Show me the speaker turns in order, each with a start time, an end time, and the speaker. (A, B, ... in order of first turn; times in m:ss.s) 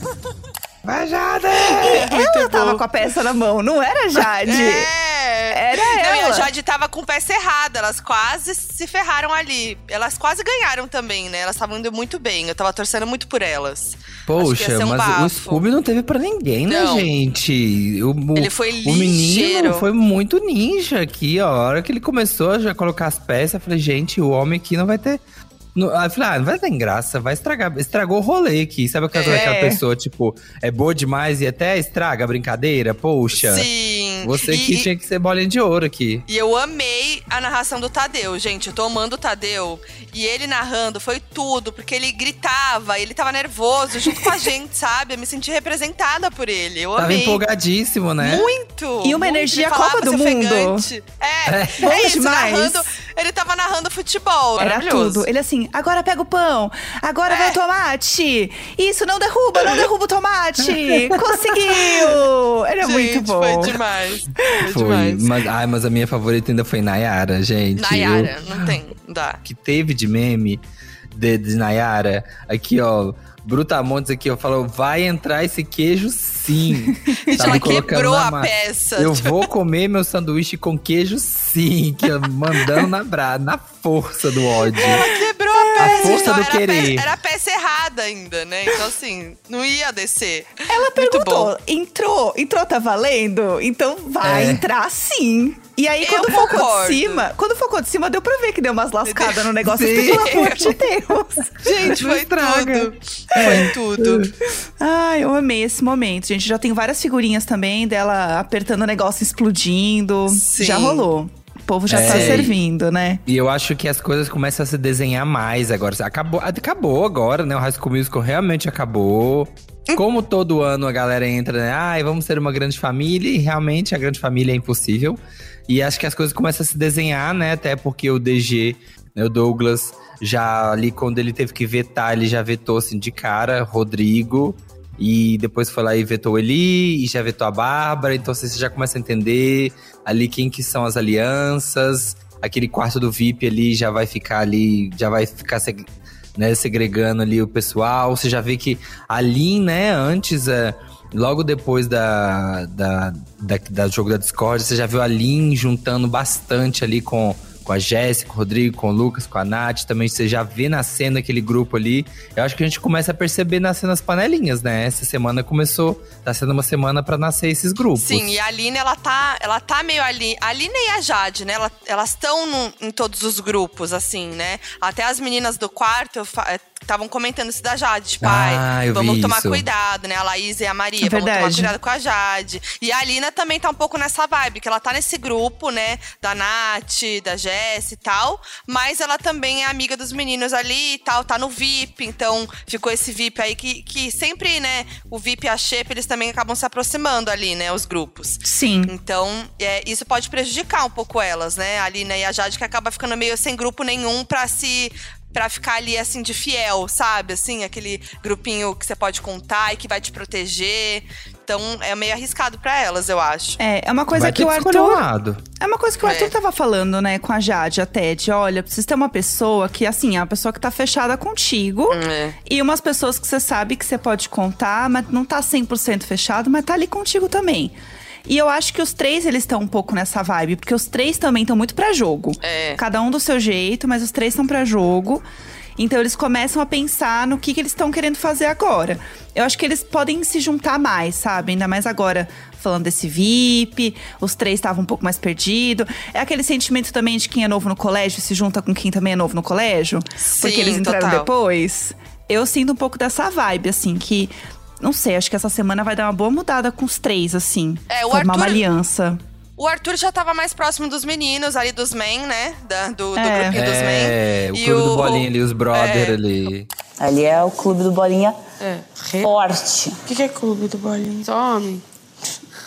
0:00.8-0:02.1 A
0:01.8-0:04.9 B
0:01.9-0:02.8 C
0:04.4-0:15.6 C
0:05.5-0:06.5 B
0:14.3-0:25.2 A
0:16.7-0:17.1 C
0:18.3-0:19.8 C
0:25.7-0:33.7 A
0:29.1-0:29.5 C
0:29.3-0:29.8 B
0:33.4-0:34.9 C
0:34.2-0:36.2 A
0:36.3-0:47.4 C
0:47.0-0:48.5 A
0:48.2-0:55.3 C
0:49.0-0:50.8 B
0:51.4-0:51.8 A
0:51.8-0:52.9 B
0:54.6-1:03.8 B
0:57.3-0:57.6 C
1:02.8-1:05.3 C
1:04.6-1:08.7 A
1:07.8-1:09.4 C
1:09.4-1:25.0 A
1:17.2-1:17.6 B
1:17.2-1:19.5 C
1:24.8-1:31.5 C
1:25.8-1:26.2 B
1:25.8-1:27.0 A
1:30.7-1:41.7 B
1:34.2-1:34.6 A
1:36.0-1:37.3 C
1:39.1-1:40.8 C
1:39.6-1:40.8 A
1:41.6-1:44.3 C
1:41.8-1:44.3 A
1:44.8-1:53.2 B
1:50.3-1:51.1 C
1:51.9-1:52.6 A
1:52.0-1:52.5 C
1:53.2-2:48.3 A
2:48.0-3:33.6 C
2:58.2-2:59.6 A
3:01.0-3:01.7 B
3:18.4-3:18.9 B
3:33.6-3:35.0 B
3:34.1-3:35.4 A
3:35.6-3:55.2 B
3:36.0-3:36.3 C
3:41.9-3:42.4 C
3:52.4-3:52.8 C
3:55.8-4:19.2 B
4:10.2-4:11.3 C
4:17.9-4:18.6 C
4:19.6-4:26.2 C
4:23.2-4:23.6 B
4:23.5-4:26.7 A
4:27.0-4:28.4 D
4:28.6-4:29.3 E
4:29.2-4:30.0 D
4:30.1-4:31.8 E